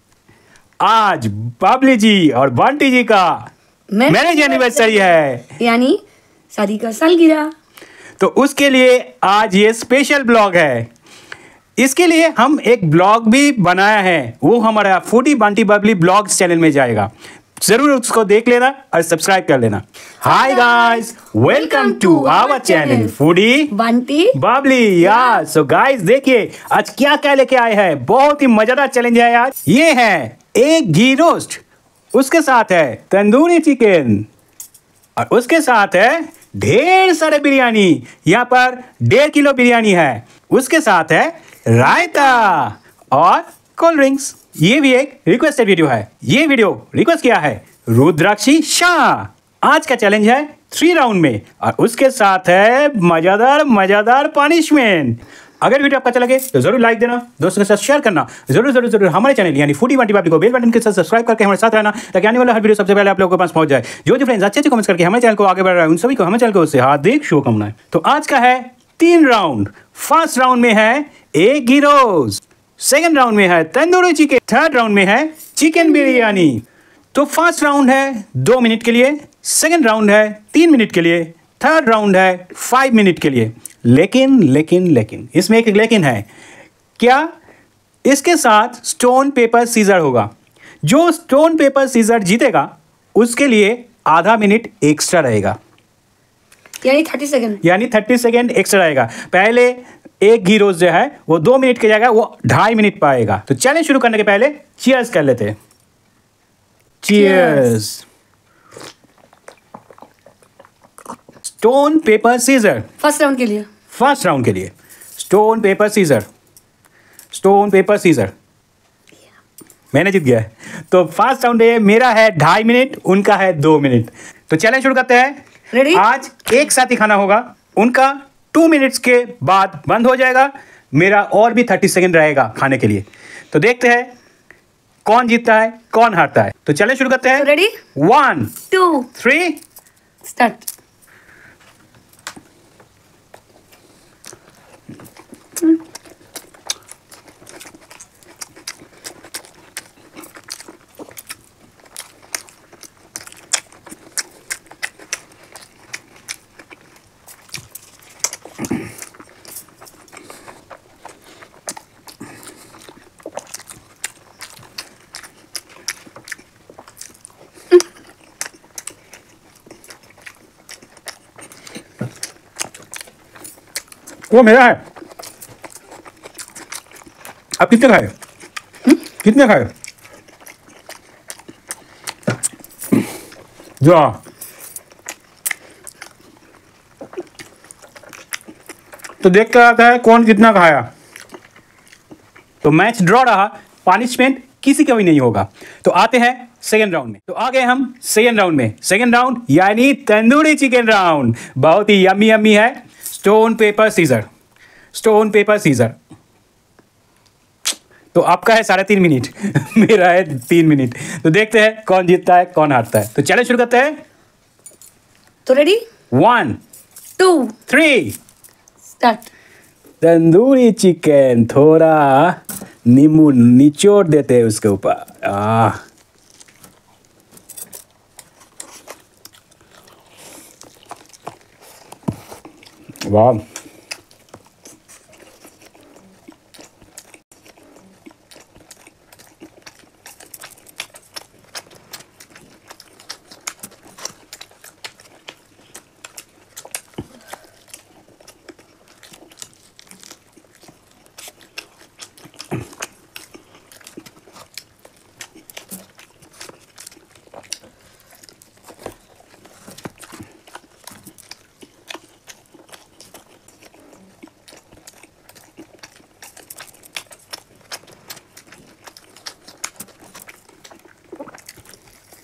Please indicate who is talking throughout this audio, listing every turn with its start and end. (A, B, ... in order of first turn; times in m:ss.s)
0:00.8-0:03.5 A
0:03.9-0:06.0 B
0:04.1-0:05.5 A
0:06.5-0:07.5 B
0:08.2-0:10.9 A
0:11.8-0:17.1 A
0:17.6-0:23.7 A
0:20.2-0:23.1 B
0:23.7-0:24.4 B
0:24.3-0:31.6 A
0:25.0-0:25.4 B
0:32.1-0:34.3 A
0:35.2-1:26.3 A
1:27.0-1:27.3 A
1:28.0-1:30.3 A
1:30.8-1:35.6 A
1:36.8-1:37.6 B
1:37.6-1:45.6 A
1:47.0-1:48.0 A
1:47.1-1:47.7 B
1:51.4-1:52.9 A
1:53.0-1:53.7 B
1:53.9-1:56.3 A
1:57.3-1:58.3 A
1:59.9-2:05.4 A
2:05.7-2:06.0 B
2:05.9-2:14.1 A
2:15.0-2:19.6 A
2:17.4-2:17.8 B
2:18.7-2:19.1 B
2:20.2-2:20.7 B
2:54.3-2:54.8 A
2:57.6-2:58.1 A
2:59.2-2:59.7 A
3:03.8-3:04.2 A
3:09.2-3:10.9 A
3:12.6-3:24.2 A
3:24.9-3:26.0 A
3:28.1-3:34.0 A
3:35.5-3:35.8 B
3:36.1-3:36.6 A
3:37.2-3:37.6 B
3:37.7-3:38.2 A
3:39.0-3:39.3 B
3:40.0-3:45.8 A
3:53.0-3:53.4 A